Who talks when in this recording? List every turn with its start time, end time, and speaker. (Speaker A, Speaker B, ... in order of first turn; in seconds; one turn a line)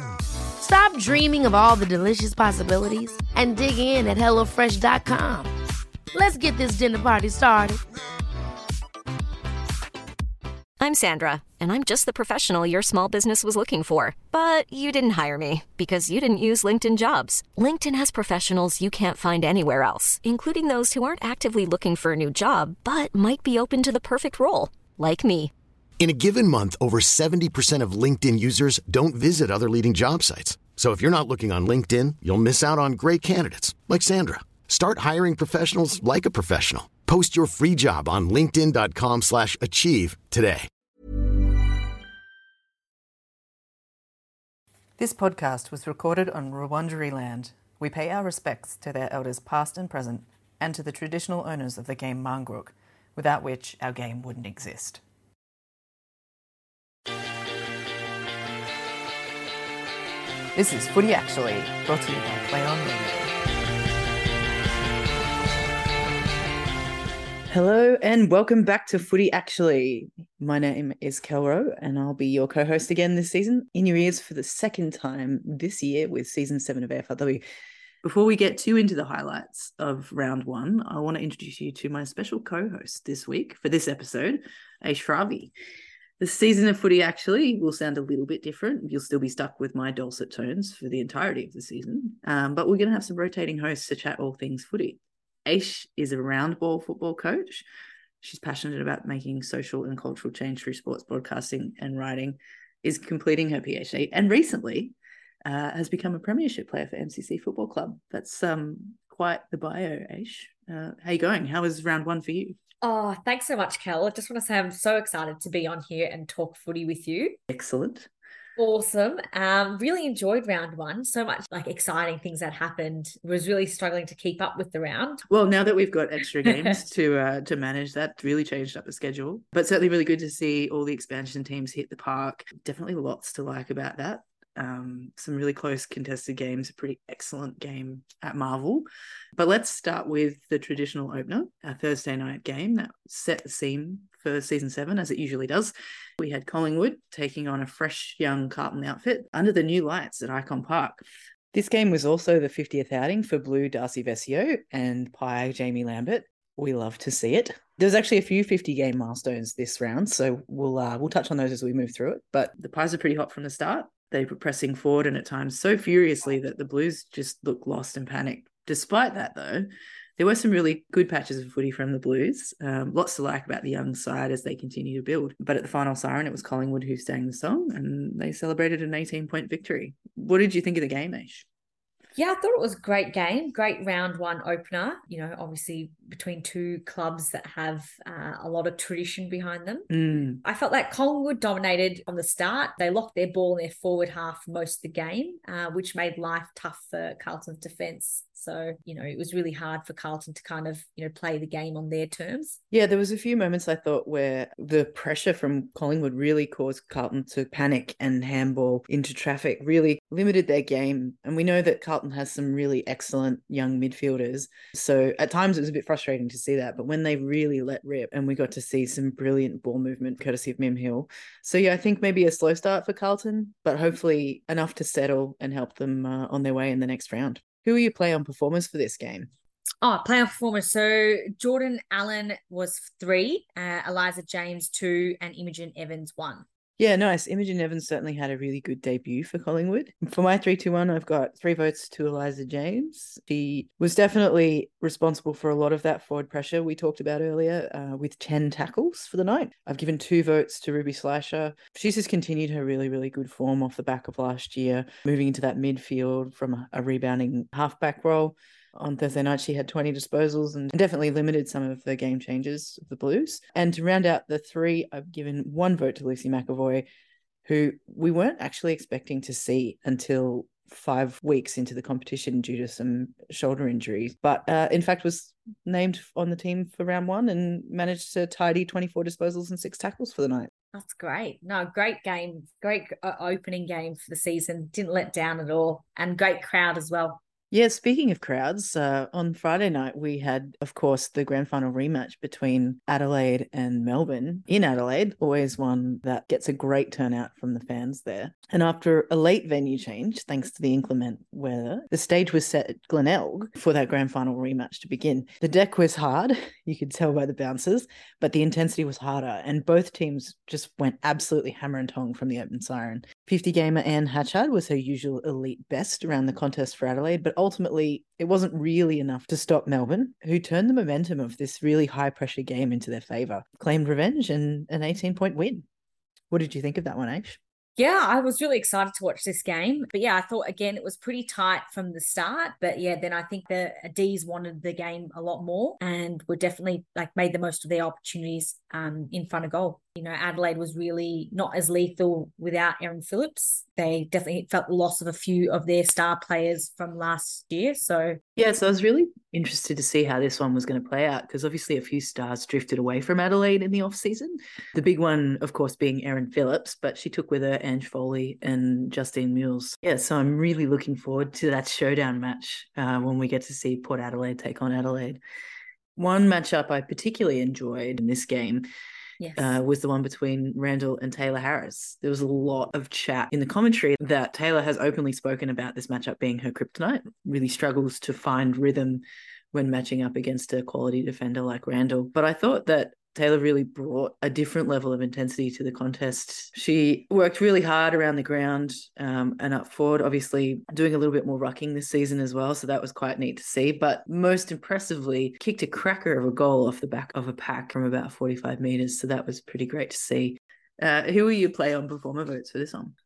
Speaker A: 0.6-5.5
Speaker A: 6.1-7.8
Speaker B: 10.8-25.5
Speaker C: 26.0-40.7
Speaker D: 45.0-55.0
Speaker D: 60.5-63.3
Speaker D: 67.5-77.4
Speaker D: 78.0-85.5
Speaker D: 86.2-97.6
Speaker D: 98.2-112.6
Speaker E: 112.8-117.4
Speaker D: 117.5-118.1
Speaker E: 118.6-125.2
Speaker D: 125.3-138.8
Speaker E: 126.4-126.8
Speaker D: 139.4-181.4
Speaker E: 182.2-189.9
Speaker D: 189.9-190.4
Speaker E: 190.4-202.6
Speaker D: 202.7-229.3
Speaker E: 229.8-236.4
Speaker D: 236.8-266.8
Speaker D: 267.4-280.5
Speaker E: 280.7-287.2
Speaker D: 287.5-325.6
Speaker D: 326.3-327.4
Speaker E: 327.8-348.2
Speaker D: 348.4-365.2
Speaker D: 365.9-368.6
Speaker E: 369.2-369.5
Speaker D: 369.4-402.9